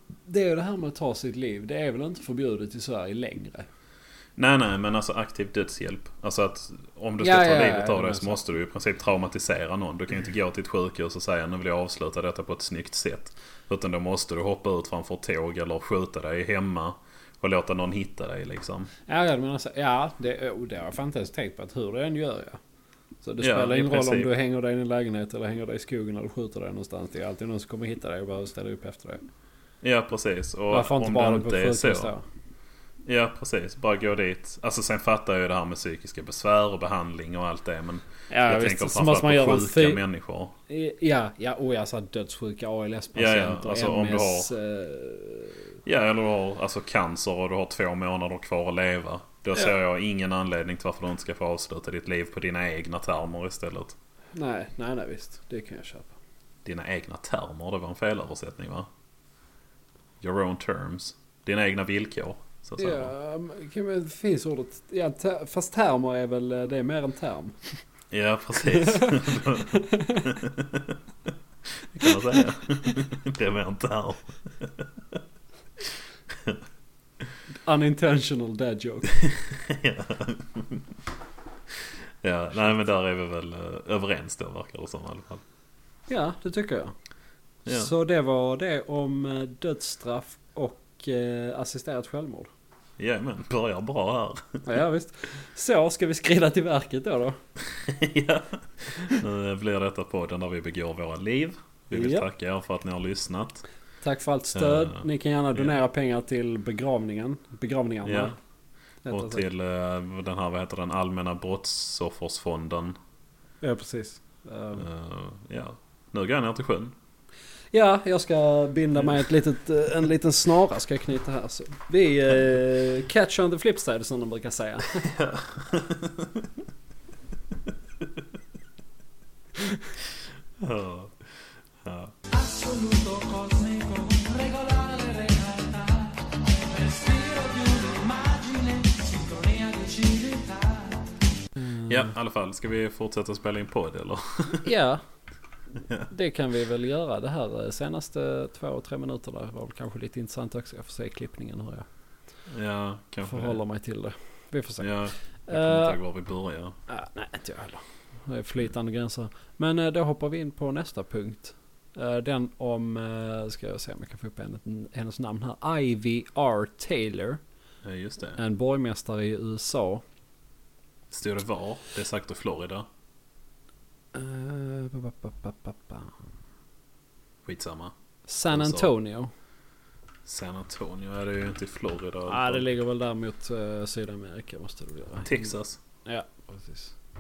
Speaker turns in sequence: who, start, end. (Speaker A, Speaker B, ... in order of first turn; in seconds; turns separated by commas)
Speaker A: 0.2-3.7, Speaker B: 4.4-18.9, Speaker A: 7.2-8.4, Speaker A: 19.1-22.6, Speaker A: 23.2-29.2, Speaker B: 23.4-24.3, Speaker B: 29.8-32.1, Speaker A: 30.7-32.2, Speaker B: 33.0-40.6, Speaker A: 38.3-40.0, Speaker A: 40.7-45.8, Speaker B: 43.1-44.5, Speaker B: 45.9-54.0, Speaker A: 54.4-56.1, Speaker B: 56.6-58.9, Speaker B: 60.2-63.1, Speaker A: 62.8-67.7, Speaker B: 68.1-71.0, Speaker A: 68.6-70.4, Speaker B: 71.8-75.2, Speaker A: 72.0-72.9, Speaker B: 76.3-76.6, Speaker A: 77.7-79.2, Speaker B: 79.2-80.8, Speaker B: 81.8-85.4, Speaker A: 86.1-86.9, Speaker B: 87.7-87.9, Speaker A: 87.7-92.5, Speaker B: 93.0-94.6, Speaker A: 94.7-97.4, Speaker B: 97.7-103.6, Speaker A: 101.9-102.3, Speaker A: 104.0-108.4, Speaker B: 104.5-105.0, Speaker B: 108.0-108.3, Speaker A: 109.0-109.5, Speaker B: 109.1-113.0, Speaker A: 113.6-114.9, Speaker B: 114.8-117.0, Speaker A: 117.7-125.1, Speaker B: 125.0-126.5, Speaker B: 130.6-132.2, Speaker C: 132.3-141.2, Speaker A: 141.6-142.1, Speaker B: 141.9-144.7, Speaker A: 144.6-145.0, Speaker A: 146.1-151.9, Speaker B: 152.5-153.6, Speaker A: 153.3-154.9, Speaker B: 154.8-156.8, Speaker A: 155.5-156.0, Speaker A: 156.9-167.4, Speaker B: 167.8-168.4, Speaker A: 168.4-170.0, Speaker B: 171.1-172.9, Speaker A: 174.1-176.2, Speaker B: 177.4-177.9, Speaker A: 178.3-179.3, Speaker B: 178.5-178.9, Speaker B: 180.2-182.7, Speaker A: 182.3-185.5, Speaker B: 185.2-185.8, Speaker A: 186.1-186.9